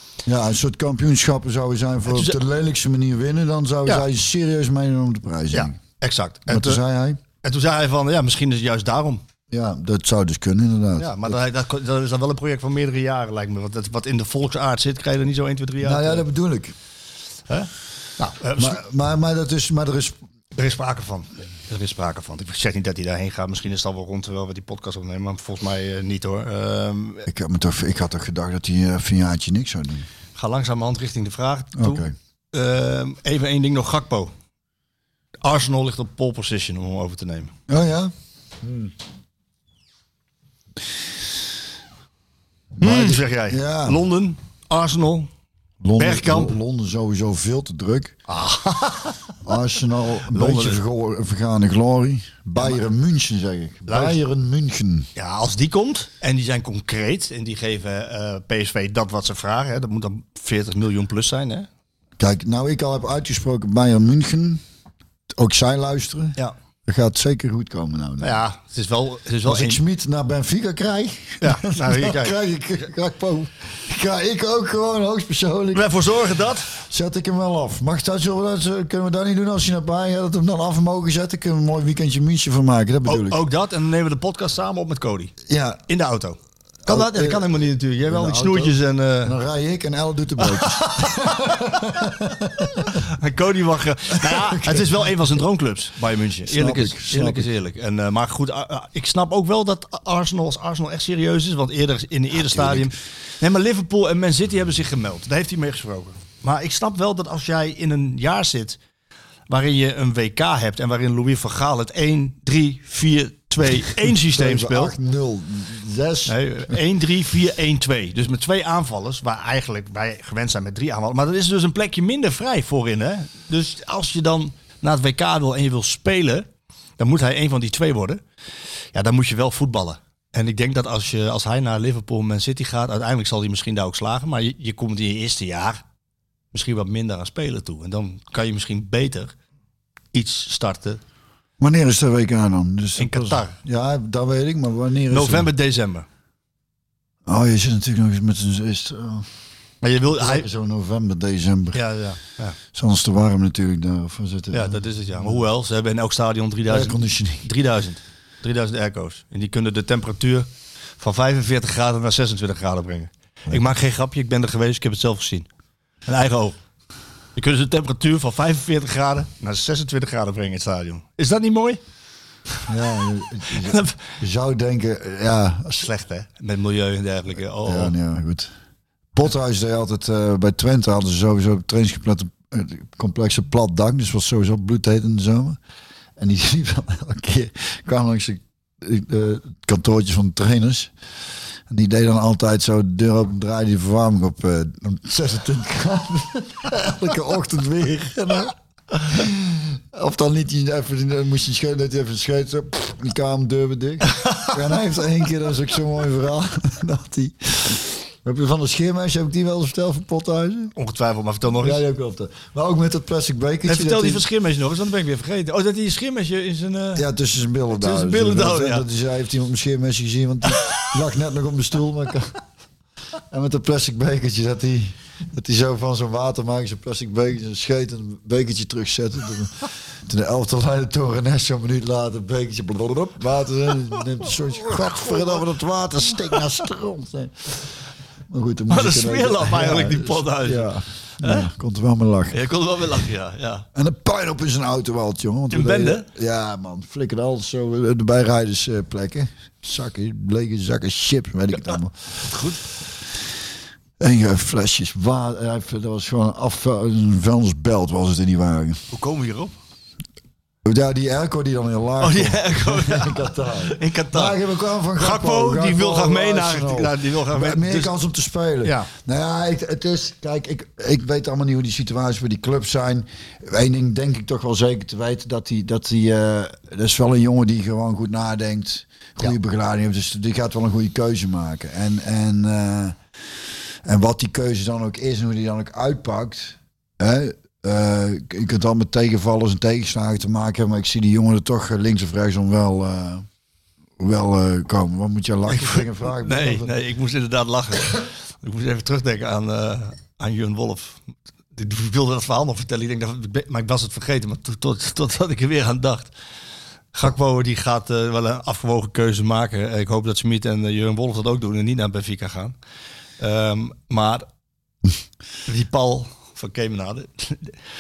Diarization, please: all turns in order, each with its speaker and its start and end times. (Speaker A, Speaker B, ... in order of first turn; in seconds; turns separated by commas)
Speaker A: 0.3-5.8, Speaker B: 2.1-2.4, Speaker B: 5.5-6.8, Speaker A: 6.5-7.2, Speaker B: 7.4-9.2, Speaker A: 9.5-11.4, Speaker B: 11.0-16.2, Speaker A: 15.8-16.7, Speaker B: 17.5-18.8, Speaker A: 18.6-20.2, Speaker B: 20.6-27.3, Speaker A: 27.3-30.1, Speaker B: 30.4-34.3, Speaker A: 31.8-32.1, Speaker B: 35.4-37.5, Speaker A: 37.7-38.9, Speaker A: 42.8-44.0, Speaker B: 42.8-45.3, Speaker A: 45.8-48.2, Speaker B: 46.0-46.5, Speaker B: 48.3-49.2, Speaker A: 49.5-55.1, Speaker B: 50.3-50.8, Speaker B: 53.9-54.2, Speaker B: 55.2-61.7, Speaker A: 62.2-64.6, Speaker A: 65.3-68.4, Speaker B: 68.2-69.8, Speaker A: 69.5-75.9, Speaker B: 71.4-72.4, Speaker B: 75.7-76.7, Speaker A: 76.7-83.4, Speaker B: 83.1-85.3, Speaker A: 85.5-85.8, Speaker B: 85.9-89.4, Speaker A: 86.9-87.5, Speaker A: 88.1-93.0, Speaker B: 90.4-91.6, Speaker B: 92.8-108.8, Speaker A: 94.2-95.1, Speaker A: 96.5-97.5, Speaker A: 102.4-102.9, Speaker B: 109.5-114.9, Speaker A: 114.3-116.8, Speaker B: 116.3-126.5, Speaker B: 127.0-128.2, Speaker B: 128.9-135.8, Speaker B: 136.5-139.3, Speaker B: 140.1-141.0, Speaker A: 141.6-145.5, Speaker B: 143.0-143.6, Speaker B: 145.1-146.1, Speaker A: 147.3-149.3, Speaker B: 149.8-150.5, Speaker A: 150.2-151.8, Speaker B: 151.7-152.6, Speaker A: 152.7-155.4, Speaker B: 154.5-160.5, Speaker A: 156.7-157.5, Speaker B: 161.0-165.5, Speaker B: 166.1-166.6, Speaker B: 167.4-171.8, Speaker A: 172.7-175.9, Speaker B: 173.5-174.0, Speaker B: 175.8-177.9, Speaker A: 177.7-178.5, Speaker A: 179.1-185.6, Speaker A: 186.2-190.9, Speaker A: 191.7-210.7, Speaker B: 210.8-211.8, Speaker A: 211.6-214.2, Speaker B: 213.7-217.1, Speaker A: 216.9-222.4, Speaker B: 217.8-218.8, Speaker B: 220.5-220.9, Speaker A: 223.3-237.7, Speaker B: 234.7-235.4, Speaker A: 238.3-242.4, Speaker B: 238.7-241.5, Speaker B: 242.3-243.7, Speaker A: 243.8-252.2, Speaker B: 245.5-246.1, Speaker B: 252.2-252.6, Speaker A: 254.0-258.8, Speaker B: 258.9-259.5, Speaker A: 260.6-283.0, Speaker B: 262.0-264.4, Speaker B: 265.0-267.9, Speaker B: 268.6-268.9, Speaker A: 283.9-293.2, Speaker A: 294.0-296.7, Speaker B: 295.5-301.0, Speaker B: 301.6-306.1, Speaker B: 306.9-312.6, Speaker B: 313.2-314.3, Speaker B: 315.5-317.6